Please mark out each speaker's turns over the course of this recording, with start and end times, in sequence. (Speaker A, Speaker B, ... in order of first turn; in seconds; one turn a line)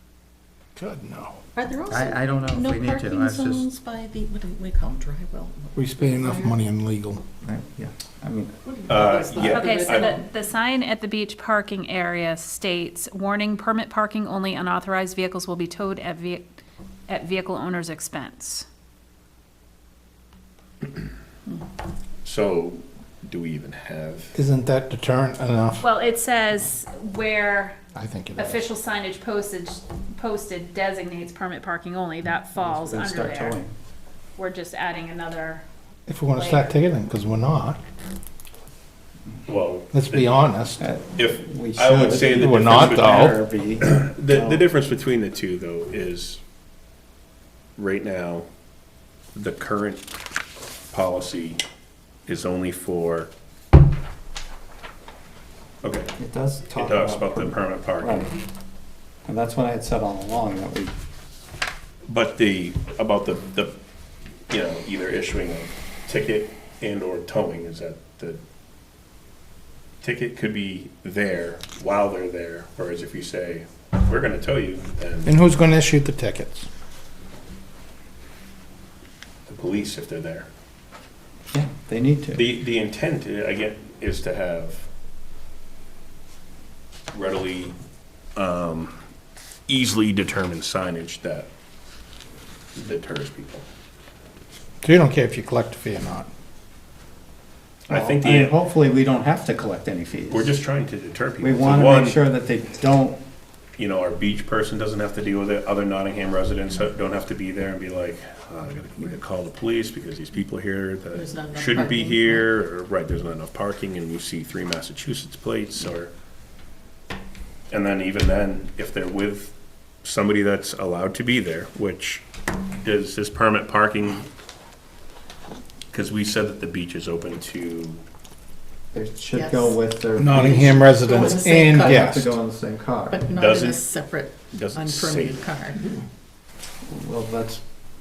Speaker A: 0.8-1.4
Speaker B: 1.5-6.6
Speaker C: 1.9-3.7
Speaker A: 5.7-7.2
Speaker C: 7.4-8.6
Speaker B: 8.7-10.2
Speaker D: 8.9-10.2
Speaker E: 9.4-16.5
Speaker E: 17.1-18.7
Speaker D: 22.2-24.4
Speaker A: 24.3-25.8
Speaker E: 25.8-27.8
Speaker A: 27.9-28.6
Speaker E: 28.4-33.6
Speaker C: 32.5-33.7
Speaker E: 34.4-35.6
Speaker A: 36.1-37.8
Speaker E: 36.4-36.7
Speaker D: 39.5-40.5
Speaker A: 39.9-40.8
Speaker C: 40.8-44.6
Speaker D: 41.2-46.4
Speaker A: 42.2-43.4
Speaker D: 47.8-48.5
Speaker D: 49.3-50.1
Speaker D: 50.9-51.6
Speaker D: 52.2-53.3
Speaker D: 55.8-56.1
Speaker C: 56.2-58.3
Speaker D: 56.8-58.3
Speaker C: 59.2-60.9
Speaker D: 62.1-63.8
Speaker D: 64.5-68.4
Speaker D: 70.0-75.4
Speaker A: 75.2-76.7
Speaker D: 79.5-80.5
Speaker C: 81.5-82.4
Speaker D: 82.3-84.9
Speaker D: 87.1-87.7
Speaker D: 88.3-89.0
Speaker D: 89.7-91.5
Speaker D: 92.7-93.7
Speaker A: 94.8-96.3
Speaker D: 97.9-98.6
Speaker C: 97.9-100.5
Speaker D: 100.3-102.2
Speaker C: 101.4-103.2
Speaker D: 103.8-116.1
Speaker B: 111.1-112.5
Speaker D: 117.7-124.3
Speaker D: 125.9-128.0
Speaker C: 128.9-133.3
Speaker B: 129.3-129.8
Speaker A: 130.2-132.4
Speaker B: 130.3-132.3
Speaker B: 133.1-135.8
Speaker D: 133.3-133.9
Speaker D: 134.5-135.9
Speaker C: 136.8-137.6